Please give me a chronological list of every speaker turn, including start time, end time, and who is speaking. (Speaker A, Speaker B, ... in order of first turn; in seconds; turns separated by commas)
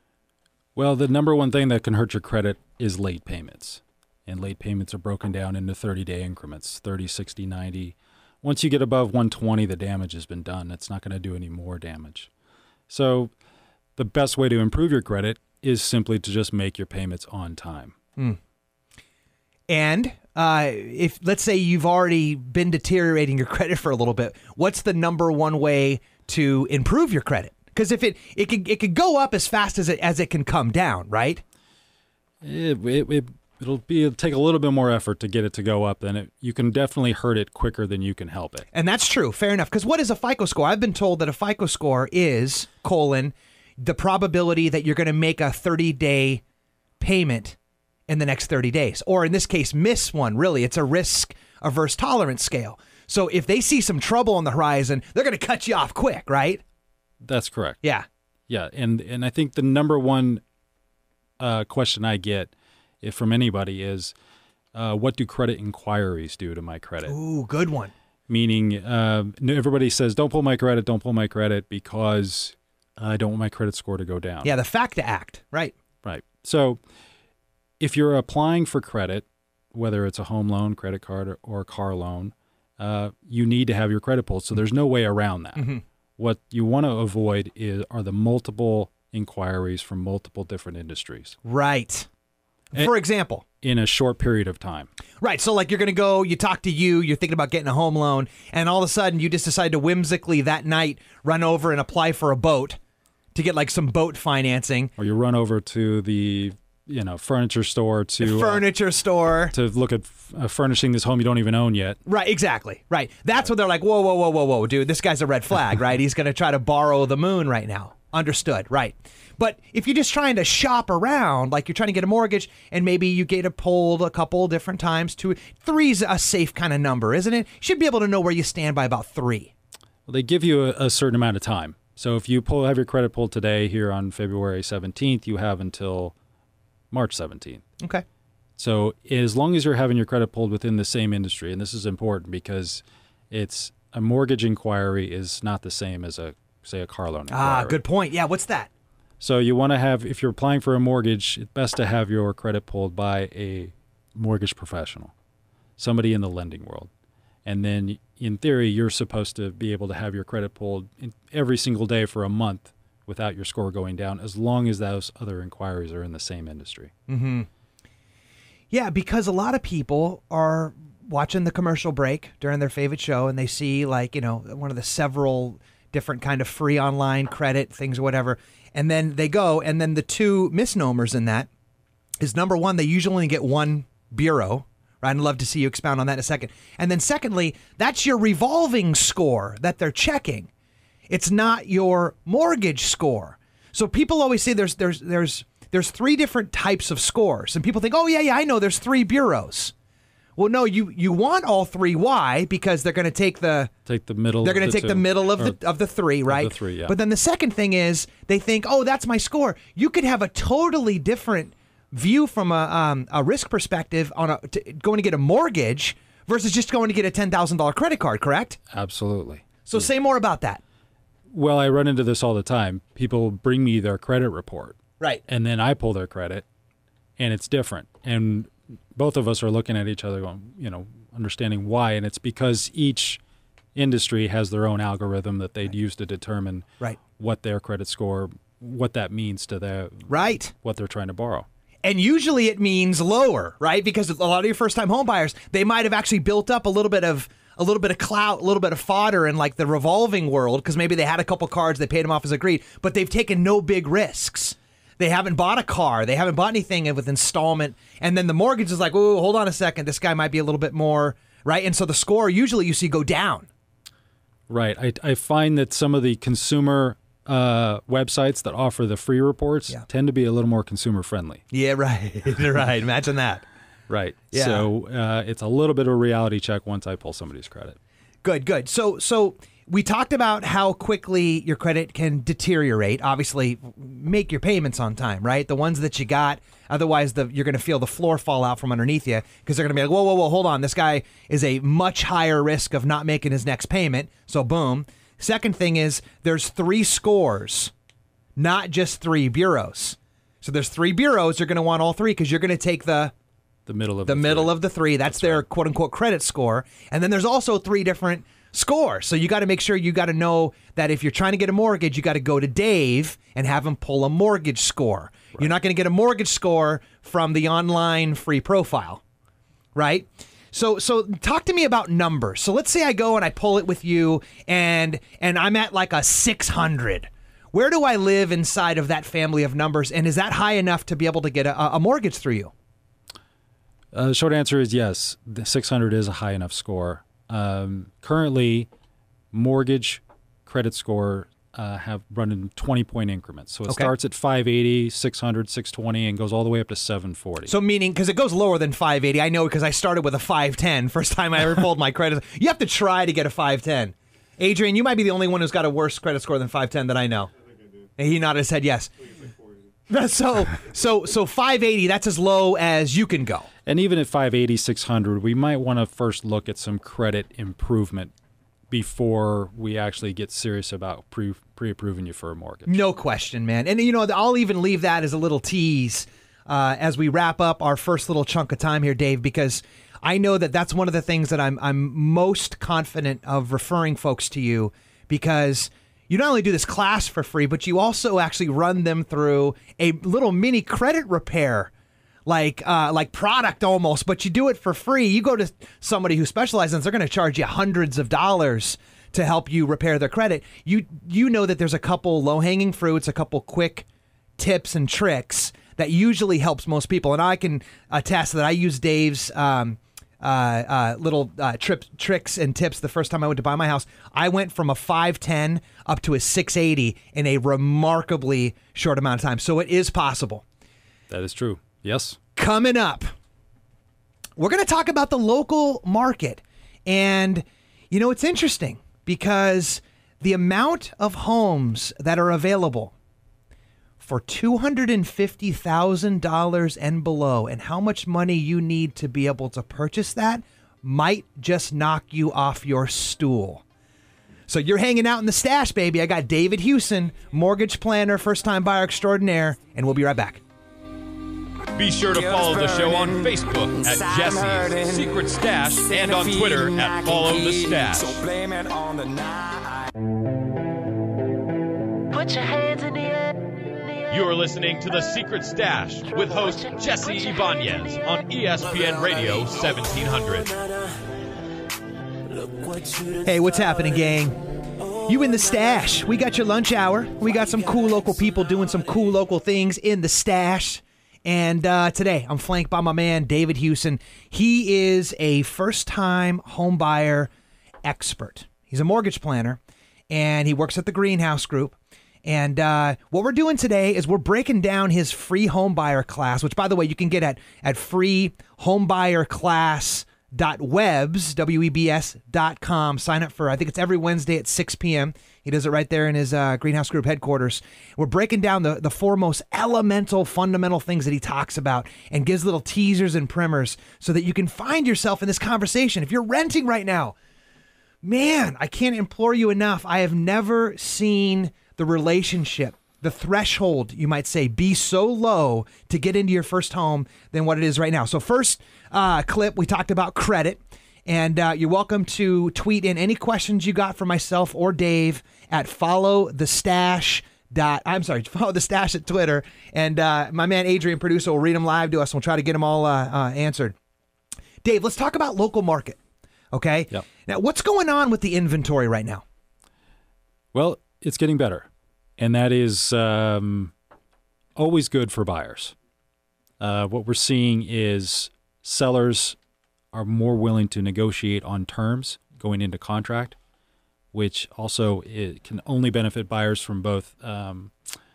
Speaker A: 0.8-12.3, Speaker A: 12.9-13.3, Speaker A: 14.0-17.9, Speaker B: 19.7-31.4, Speaker A: 32.4-38.7, Speaker B: 38.7-46.4, Speaker B: 47.0-47.6, Speaker B: 48.1-56.6, Speaker A: 57.2-57.8, Speaker A: 58.5-60.4, Speaker A: 61.4-64.1, Speaker A: 64.7-67.2, Speaker B: 67.1-67.9, Speaker A: 68.3-74.5, Speaker B: 74.4-75.7, Speaker A: 76.0-76.8, Speaker A: 77.8-91.4, Speaker B: 85.6-85.8, Speaker B: 91.5-92.1, Speaker B: 92.7-93.4, Speaker A: 93.6-94.9, Speaker B: 95.2-102.8, Speaker B: 103.3-104.9, Speaker A: 105.0-108.6, Speaker B: 108.2-109.5, Speaker A: 109.5-112.0, Speaker B: 112.1-129.5, Speaker A: 130.1-136.2, Speaker A: 136.9-137.6, Speaker A: 138.6-147.8, Speaker B: 147.3-148.7, Speaker A: 149.2-155.1, Speaker A: 155.8-156.9, Speaker A: 157.4-166.9, Speaker B: 167.1-167.5, Speaker B: 168.7-181.5, Speaker B: 182.2-190.5, Speaker B: 191.1-199.7, Speaker B: 200.4-203.7, Speaker A: 203.9-205.6, Speaker B: 204.4-218.6, Speaker A: 206.3-206.9, Speaker A: 218.7-219.8, Speaker B: 219.7-220.6, Speaker A: 221.3-226.4, Speaker A: 227.2-233.2, Speaker A: 233.8-241.5, Speaker B: 240.1-240.5, Speaker B: 241.8-263.5, Speaker A: 264.5-271.4, Speaker B: 271.5-273.4, Speaker A: 273.9-277.8, Speaker B: 274.3-274.7, Speaker B: 278.2-297.7, Speaker B: 298.4-303.1, Speaker A: 303.7-305.4, Speaker B: 304.1-319.0, Speaker B: 319.8-332.5, Speaker A: 333.9-338.7, Speaker A: 339.3-347.5, Speaker B: 347.5-357.3, Speaker B: 358.0-358.9, Speaker B: 359.9-363.5, Speaker A: 363.7-368.1, Speaker A: 368.7-372.8, Speaker B: 372.7-391.7, Speaker B: 392.3-403.9, Speaker B: 404.4-420.4, Speaker A: 421.1-422.2, Speaker B: 422.4-423.1, Speaker B: 424.4-432.9, Speaker B: 434.0-443.6, Speaker B: 444.5-450.4, Speaker C: 451.8-458.2, Speaker D: 452.1-455.1, Speaker D: 455.9-459.9, Speaker D: 462.1-463.3, Speaker C: 464.1-470.5, Speaker D: 472.4-473.2, Speaker B: 473.2-474.4, Speaker B: 474.9-487.3, Speaker B: 487.8-489.6, Speaker B: 490.1-517.1, Speaker B: 518.0-543.8, Speaker B: 544.6-546.0, Speaker B: 546.5-549.2, Speaker A: 550.5-553.7, Speaker A: 554.6-555.8, Speaker A: 556.6-559.4, Speaker A: 559.9-563.4, Speaker A: 564.1-567.7